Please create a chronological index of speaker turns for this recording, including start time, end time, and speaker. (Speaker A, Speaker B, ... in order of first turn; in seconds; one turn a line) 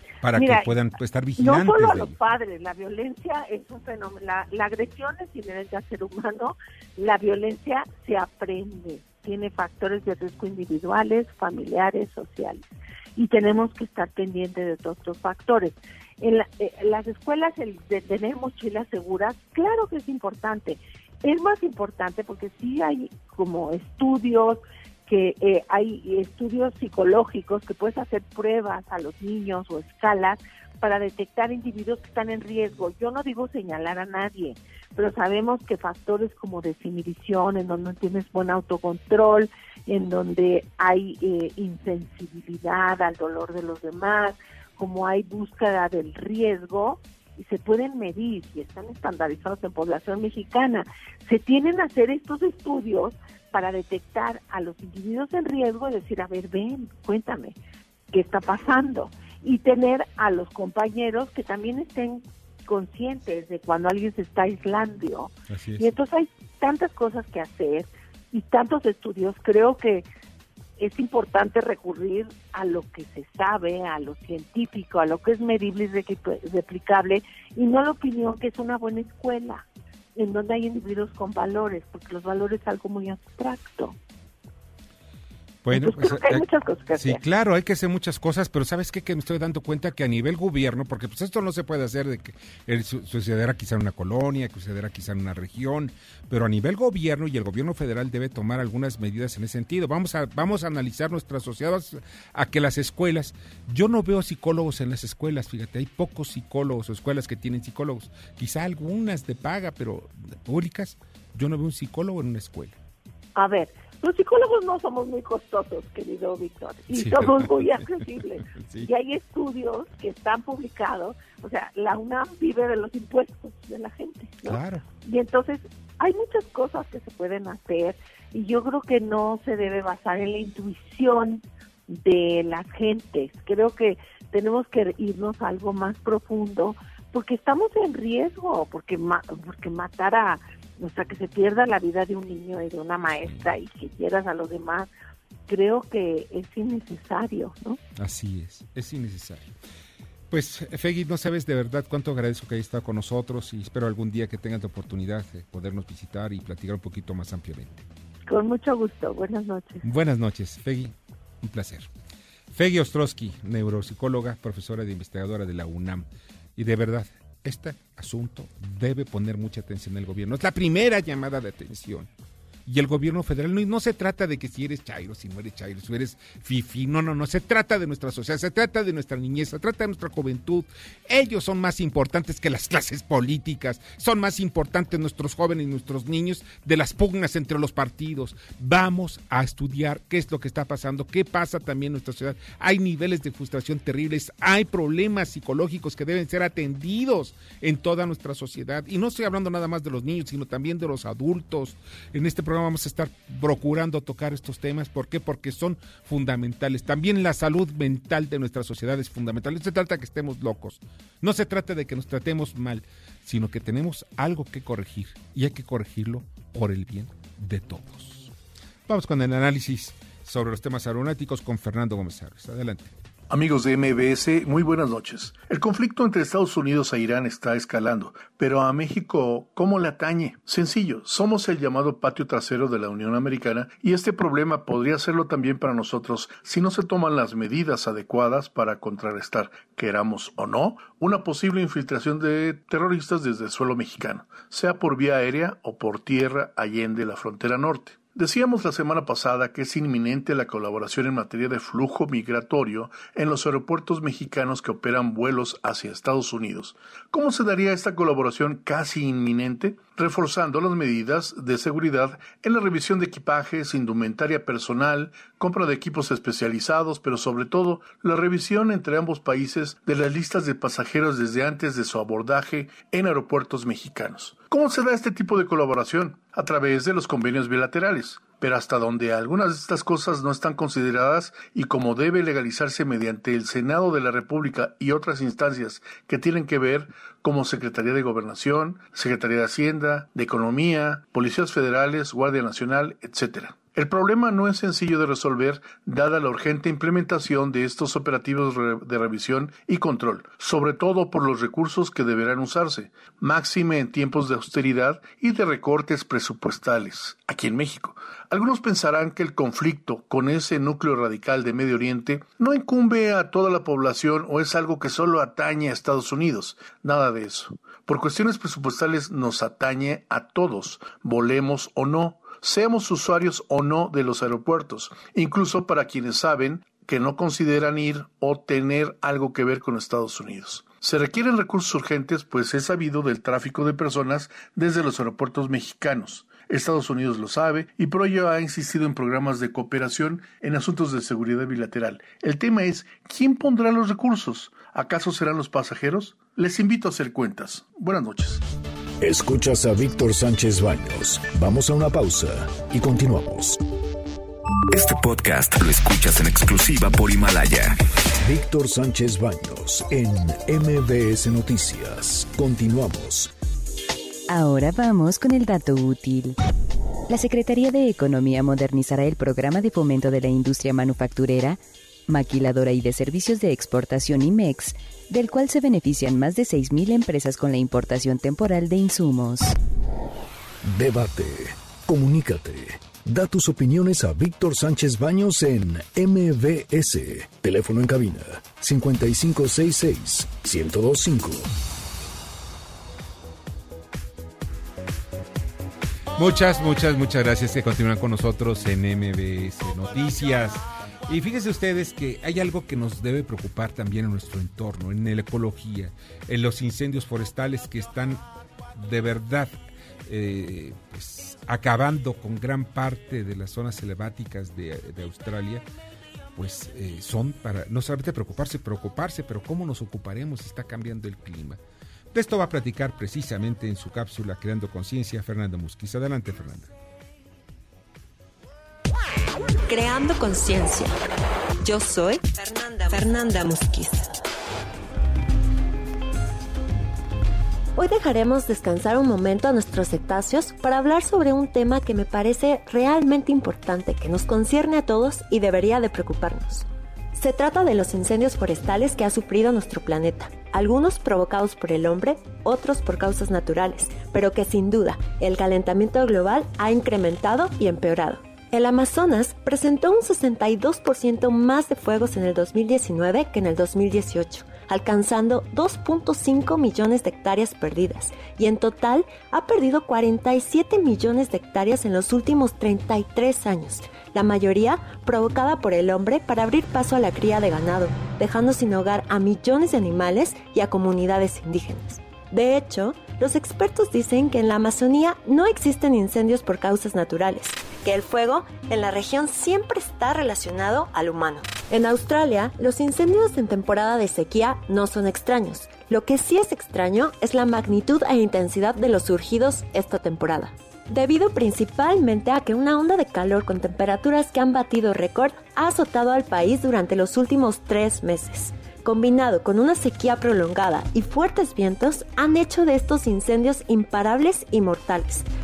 Speaker A: 0.2-2.1
Speaker B: 0.3-0.7
Speaker B: 1.4-57.6
Speaker B: 58.1-70.0
Speaker A: 65.5-65.9
Speaker B: 70.8-79.6
Speaker B: 80.2-84.0
Speaker A: 85.6-86.5
Speaker B: 85.7-87.2
Speaker A: 87.0-112.8
Speaker B: 113.4-144.9
Speaker A: 117.0-117.9
Speaker A: 118.5-118.9
Speaker A: 124.5-124.8
Speaker B: 145.5-147.8
Speaker A: 148.0-149.5
Speaker A: 150.3-157.8
Speaker B: 158.3-159.8
Speaker A: 159.8-161.9
Speaker A: 162.5-166.1
Speaker A: 166.6-172.1
Speaker A: 172.7-218.3
Speaker A: 218.9-222.9
Speaker C: 223.3-348.4
Speaker D: 349.0-353.6
Speaker E: 354.7-357.8
Speaker D: 358.2-363.3
Speaker F: 364.3-366.4
Speaker F: 367.1-379.6
Speaker D: 380.6-391.5
Speaker A: 396.2-408.2
Speaker A: 408.8-409.6
Speaker A: 410.1-415.6
Speaker A: 416.4-421.6
Speaker A: 422.1-426.7
Speaker G: 429.7-431.0
Speaker G: 431.6-434.1
Speaker G: 437.8-515.2